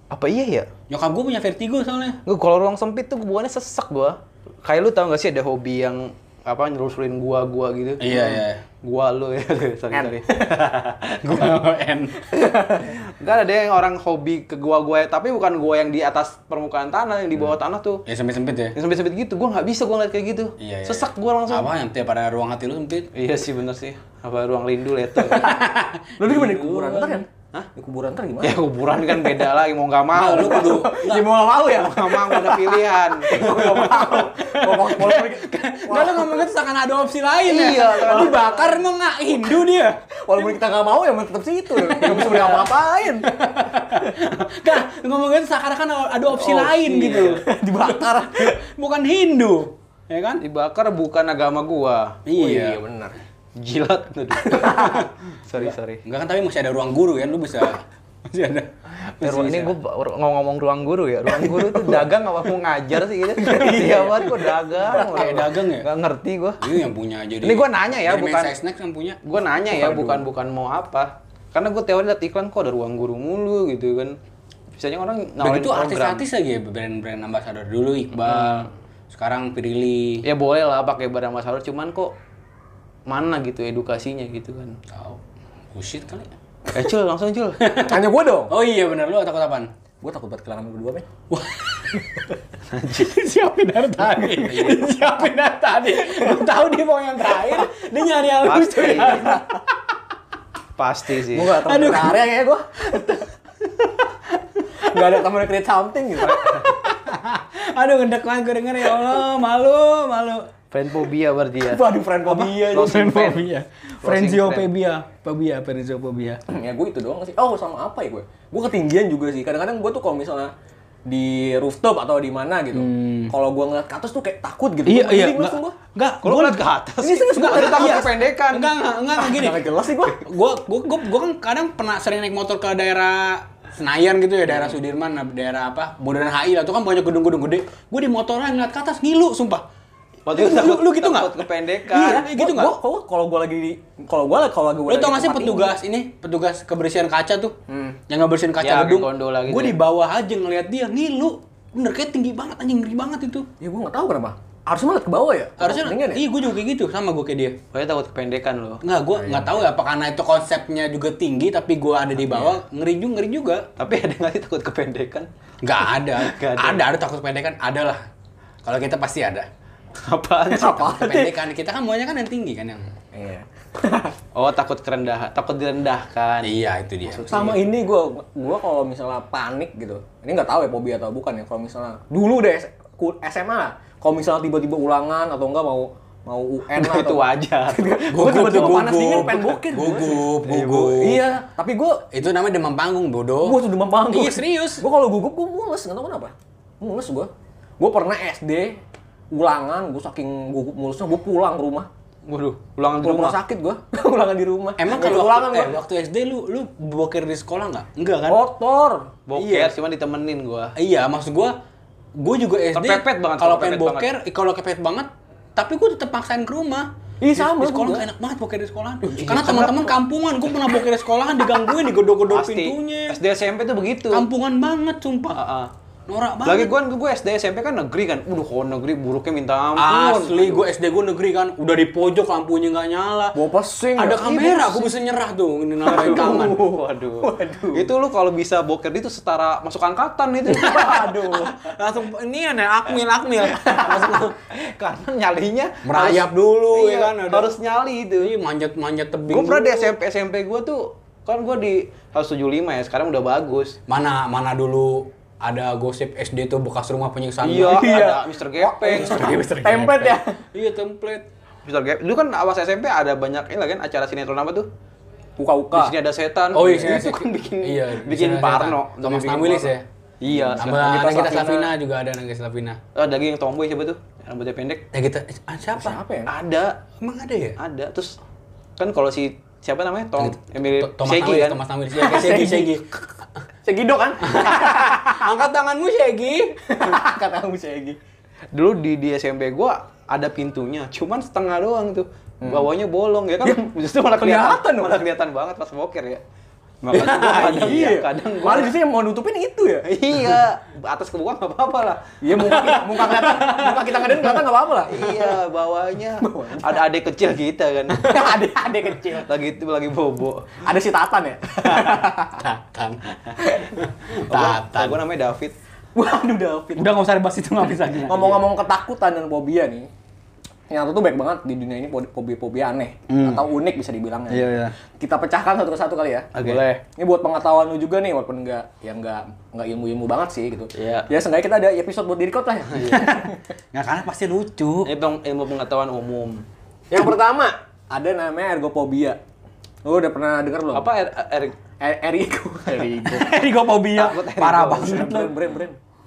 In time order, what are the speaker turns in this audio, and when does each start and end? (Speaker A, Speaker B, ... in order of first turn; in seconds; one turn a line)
Speaker A: 0.1-0.7
Speaker B: 0.9-2.2
Speaker A: 2.2-11.5
Speaker B: 8.0-8.6
Speaker C: 9.9-10.4
Speaker B: 11.2-12.2
Speaker C: 12.3-13.0
Speaker A: 12.4-18.0
Speaker B: 18.1-18.7
Speaker A: 18.7-21.7
Speaker B: 20.6-23.1
Speaker A: 23.1-25.5
Speaker B: 25.3-27.2
Speaker C: 25.4-25.6
Speaker C: 26.2-28.6
Speaker A: 28.4-34.1
Speaker B: 30.1-31.3
Speaker C: 30.1-36.5
Speaker B: 33.4-40.0
Speaker A: 37.5-38.7
Speaker C: 38.1-38.8
Speaker C: 40.2-43.3
Speaker B: 41.8-42.7
Speaker B: 43.2-50.4
Speaker C: 46.3-48.6
Speaker A: 50.4-52.2
Speaker B: 52.2-52.8
Speaker C: 52.3-53.1
Speaker A: 53.5-56.0
Speaker C: 54.4-55.0
Speaker B: 54.7-55.1
Speaker B: 56.0-59.7
Speaker A: 59.2-66.6
Speaker C: 61.3-62.0
Speaker C: 63.4-65.1
Speaker B: 63.5-63.9
Speaker B: 64.8-65.8
Speaker B: 66.6-69.2
Speaker A: 67.4-68.5
Speaker A: 69.2-74.2
Speaker C: 69.6-70.2
Speaker A: 74.7-76.2
Speaker B: 75.4-80.2
Speaker A: 78.2-78.7
Speaker A: 80.2-82.1
Speaker A: 83.1-84.8
Speaker B: 84.9-85.2
Speaker B: 85.7-86.3
Speaker A: 86.7-87.6
Speaker B: 87.6-89.7
Speaker C: 87.8-88.5
Speaker C: 90.0-91.1
Speaker B: 91.3-92.2
Speaker A: 92.7-93.1
Speaker B: 92.9-99.6
Speaker A: 98.4-99.2
Speaker C: 99.1-99.4
Speaker A: 100.8-101.6
Speaker C: 101.3-103.2
Speaker B: 101.5-102.2
Speaker C: 104.8-106.7
Speaker A: 106.2-106.7
Speaker B: 106.4-110.5
Speaker A: 110.7-111.8
Speaker B: 111.7-116.4
Speaker C: 111.9-112.6
Speaker A: 112.5-113.5
Speaker A: 114.0-114.7
Speaker C: 116.5-120.5
Speaker C: 121.0-125.7
Speaker B: 122.7-123.3
Speaker B: 124.8-126.7
Speaker A: 126.2-128.7
Speaker C: 127.0-128.2
Speaker B: 127.3-139.6
Speaker C: 129.1-130.3
Speaker A: 140.2-142.3
Speaker B: 140.3-142.8
Speaker C: 141.9-145.7
Speaker B: 144.9-147.5
Speaker C: 147.7-148.0
Speaker B: 148.1-153.5
Speaker A: 148.6-149.8
Speaker C: 153.6-156.2
Speaker B: 155.6-157.6
Speaker A: 157.7-158.8
Speaker B: 158.8-163.7
Speaker C: 159.1-159.6
Speaker C: 162.3-162.6
Speaker A: 163.8-165.3
Speaker B: 165.6-168.0
Speaker A: 166.1-166.8
Speaker B: 168.6-169.5
Speaker A: 170.0-171.1
Speaker C: 170.5-171.3
Speaker B: 170.6-172.9
Speaker C: 173.1-174.2
Speaker A: 174.3-176.5
Speaker B: 176.4-177.5
Speaker C: 177.1-192.1
Speaker A: 186.7-188.9
Speaker B: 188.1-191.3
Speaker A: 190.4-191.1
Speaker B: 192.1-194.8
Speaker C: 193.4-201.9
Speaker A: 202.2-203.4
Speaker C: 202.9-205.8
Speaker B: 204.8-208.4
Speaker C: 208.3-209.1
Speaker A: 209.3-210.7
Speaker B: 209.3-209.7
Speaker B: 210.8-211.5
Speaker B: 212.2-223.2
Speaker A: 212.7-214.1
Speaker C: 217.2-218.1
Speaker A: 219.1-219.9
Speaker C: 219.3-219.7
Speaker A: 222.3-224.2
Speaker B: 224.1-225.4
Speaker A: 225.3-225.7
Speaker B: 226.1-226.7
Speaker A: 226.4-230.7
Speaker B: 229.8-233.4
Speaker C: 233.3-234.4
Speaker B: 233.9-236.6
Speaker A: 234.2-234.9
Speaker A: 235.8-241.4
Speaker C: 237.2-237.9
Speaker B: 240.5-244.3
Speaker C: 240.5-241.5
Speaker A: 243.7-248.3
Speaker B: 245.8-247.6
Speaker B: 248.2-249.9
Speaker A: 249.3-253.8
Speaker B: 253.9-258.1
Speaker A: 257.4-259.3
Speaker C: 257.6-260.4
Speaker B: 258.8-261.3
Speaker A: 261.6-264.7
Speaker C: 265.4-265.9
Speaker A: 265.7-271.6
Speaker B: 266.5-269.8
Speaker C: 270.3-271.7
Speaker B: 270.6-272.8
Speaker A: 272.9-274.8
Speaker B: 274.9-276.0
Speaker C: 275.7-276.3
Speaker A: 276.3-276.8
Speaker B: 277.0-277.6
Speaker A: 277.6-278.1
Speaker A: 278.8-281.6
Speaker B: 280.2-282.9
Speaker C: 281.9-282.8
Speaker C: 283.6-285.1
Speaker B: 284.2-286.9
Speaker C: 286.7-288.0
Speaker A: 288.5-296.2
Speaker C: 292.4-292.7
Speaker C: 293.4-295.0
Speaker B: 296.8-297.8
Speaker A: 296.9-298.8
Speaker C: 297.2-299.9
Speaker A: 299.8-302.7
Speaker C: 302.2-305.4
Speaker B: 302.4-304.4
Speaker A: 304.9-308.0
Speaker C: 306.2-306.8
Speaker C: 307.9-309.3
Speaker A: 309.2-310.6
Speaker C: 310.6-312.4
Speaker B: 311.8-315.0
Speaker A: 314.2-315.5
Speaker C: 315.9-317.0
Speaker B: 316.8-318.4
Speaker C: 318.1-319.9
Speaker C: 320.7-333.4
Speaker B: 323.1-323.4
Speaker B: 324.3-324.7
Speaker A: 326.3-326.8
Speaker A: 330.7-331.1
Speaker A: 332.7-333.1
Speaker B: 332.9-334.9
Speaker A: 334.8-336.4
Speaker C: 336.9-339.2
Speaker C: 339.8-340.9
Speaker A: 340.7-341.6
Speaker C: 341.8-343.4
Speaker B: 343.0-345.4
Speaker A: 343.9-345.1
Speaker C: 344.7-345.8